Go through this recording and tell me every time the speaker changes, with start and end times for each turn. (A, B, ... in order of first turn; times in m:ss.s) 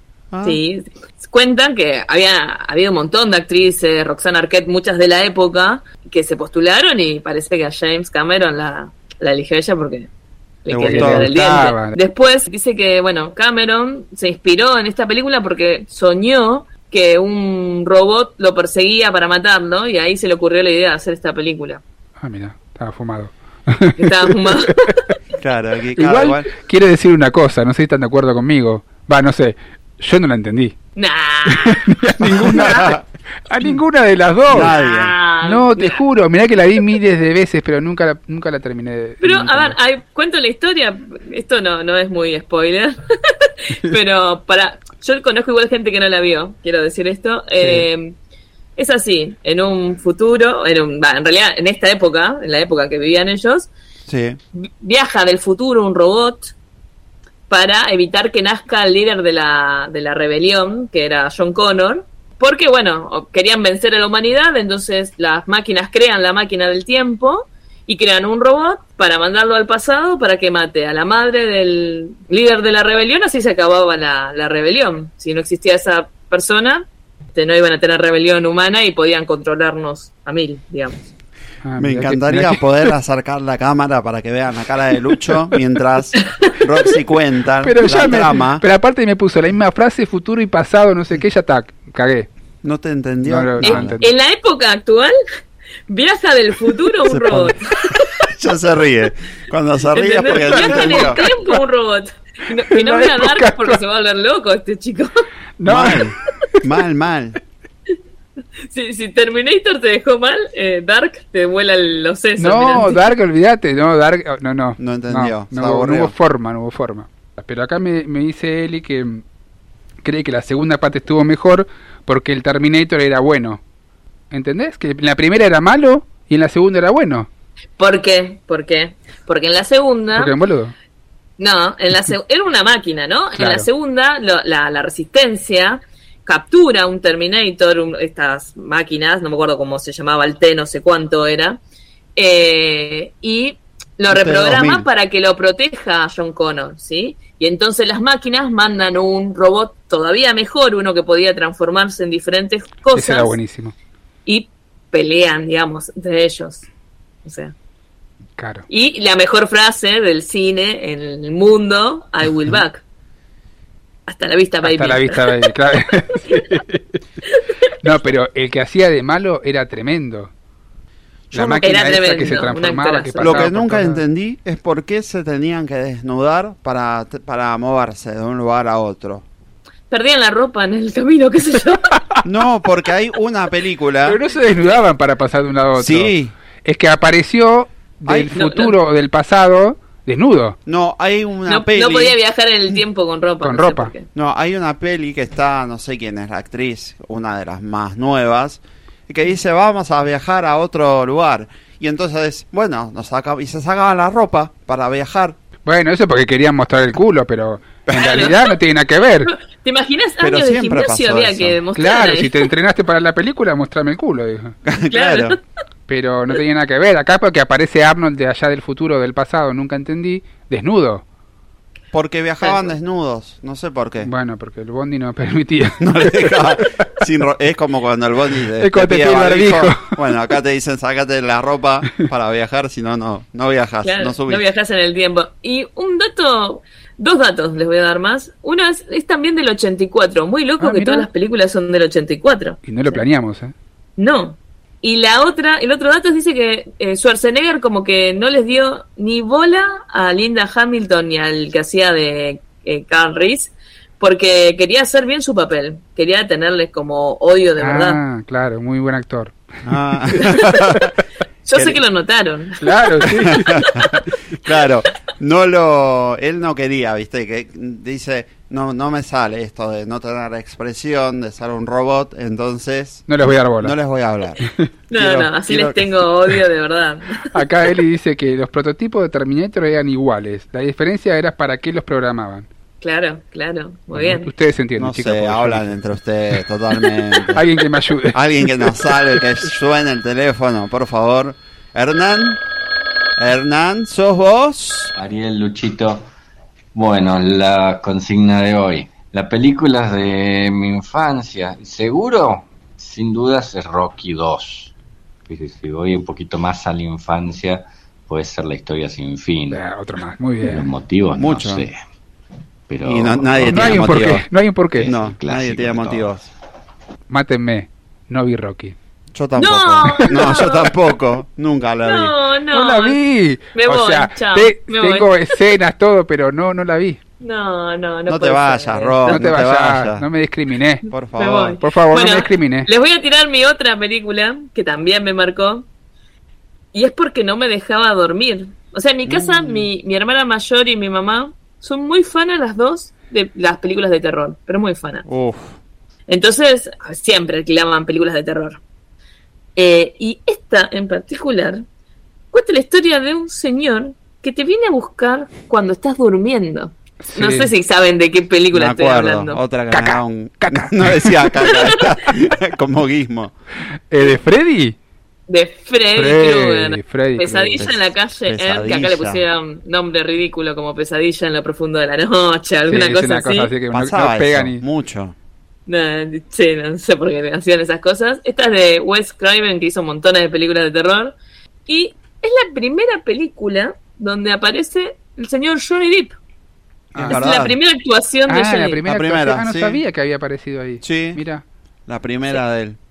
0:00.3-0:00.6 A
0:00.4-0:10.1 B
0:10.6-0:21.8 B
0:10.7-0:11.3 A
0:10.8-0:12.0 C
0:22.2-0:24.0 C
0:24.0-0:24.7 B
0:25.4-0:26.5 A
0:26.0-0:30.7 C
0:31.0-0:31.8 B
0:31.9-0:32.9 C
0:32.3-0:33.0 A
0:33.5-0:34.7 C
0:34.5-0:35.1 A
0:34.6-0:36.0 B
0:35.4-0:39.8 C
0:39.2-0:48.1 B
0:48.8-0:53.7 B
0:54.1-0:54.4 A
0:54.8-0:56.5 B
0:57.5-1:21.1 B
1:21.6-1:22.6 C
1:21.8-1:28.6 A
1:27.6-1:32.3 C
1:32.6-1:34.0 A
1:33.2-1:34.1 C
1:33.6-1:35.2 B
1:35.9-1:37.7 B
1:37.1-1:37.5 A
1:38.4-1:41.2 A
1:39.9-1:45.2 B
1:40.4-1:41.6 C
1:42.7-1:43.8 C
1:45.6-1:46.0 C
1:45.6-1:47.4 A
1:48.7-1:53.0 B
1:52.4-1:59.2 C
1:54.8-1:56.1 A
2:00.0-2:03.6 C
2:04.3-2:07.3 C
2:07.8-2:10.3 B
2:10.2-2:10.7 C
2:11.4-2:21.6 B
2:13.4-2:13.6 C
2:22.2-2:33.3 B
2:24.1-2:24.8 A
2:32.9-2:33.7 C
2:34.2-2:36.6 B
2:37.2-2:37.5 B
2:38.4-2:38.6 C
2:38.7-2:42.8 B
2:44.1-2:45.4 B
2:44.6-2:46.8 C
2:47.8-2:50.3 C
2:51.3-2:54.0 C
2:51.6-2:53.4 B
2:53.2-2:59.2 A
2:59.9-3:01.8 B
3:02.2-3:04.2 A
3:04.1-3:06.1 C
3:05.8-3:06.3 A
3:06.6-3:10.6 C
3:08.0-3:08.3 A
3:08.4-3:08.8 B
3:10.6-3:12.1 A
3:11.5-3:14.0 B
3:13.4-3:13.9 C
3:14.1-3:25.4 A
3:25.6-3:29.3 C
3:28.0-3:28.4 B
3:29.3-3:32.3 B
3:30.2-3:31.6 A
3:31.8-3:34.5 C
3:34.6-3:35.3 A
3:34.9-3:35.4 B
3:35.9-3:41.0 C
3:41.9-3:44.1 A
3:44.0-3:45.8 C
3:45.8-3:54.4 A
3:48.6-3:49.9 C
3:53.8-4:03.0 B
4:00.6-4:01.1 C
4:02.6-4:03.5 C
4:04.0-4:18.0 B
4:17.6-4:19.6 C
4:19.6-4:20.9 A
4:21.4-4:22.8 B
4:21.5-4:21.8 A
4:22.6-4:23.5 C
4:24.4-4:33.0 A
4:33.1-4:33.7 C
4:33.6-4:35.8 A
4:34.9-4:37.2 B
4:37.3-4:42.5 C
4:42.8-4:44.3 B
4:43.9-4:45.8 C
4:44.8-4:47.4 A
4:47.4-4:48.2 C
4:48.1-4:52.4 A
4:53.2-4:54.9 A
4:54.9-4:56.0 D
4:56.7-5:04.7 D
5:05.3-5:09.6 D
5:09.5-5:10.6 C
5:10.4-5:11.8 D
5:11.2-5:11.6 A
5:12.7-5:14.0 D
5:12.8-5:14.2 A
5:13.5-5:15.0 C
5:14.8-5:16.2 D
5:14.8-5:16.3 A
5:17.1-5:18.8 C
5:19.1-5:22.1 A
5:19.4-5:20.7 B
5:21.8-5:23.0 B
5:22.5-5:27.0 C
5:23.5-5:25.2 B
5:27.2-5:29.2 B
5:28.1-5:30.0 A
5:29.1-5:30.8 C
5:30.9-5:31.6 A
5:31.2-5:35.6 B
5:31.6-5:32.7 C
5:36.7-5:45.0 B
5:39.0-5:39.7 A
5:45.0-5:45.6 A
5:46.1-5:48.6 B
5:49.6-5:51.6 B
5:52.3-5:59.4 B
5:57.0-5:57.5 C
5:58.5-6:03.3 A
5:59.7-6:01.1 C
6:03.9-6:04.8 C
6:05.3-6:13.5 B
6:06.0-6:07.7 C
6:07.6-6:09.2 A
6:12.7-6:14.6 C
6:13.7-6:15.1 A
6:15.7-6:21.1 B
6:21.7-6:26.2 B
6:26.9-6:27.2 C
6:27.0-6:27.6 A
6:27.1-6:28.8 B
6:28.3-6:31.4 C
6:28.8-6:29.8 A
6:30.8-6:31.2 A
6:31.9-6:32.8 A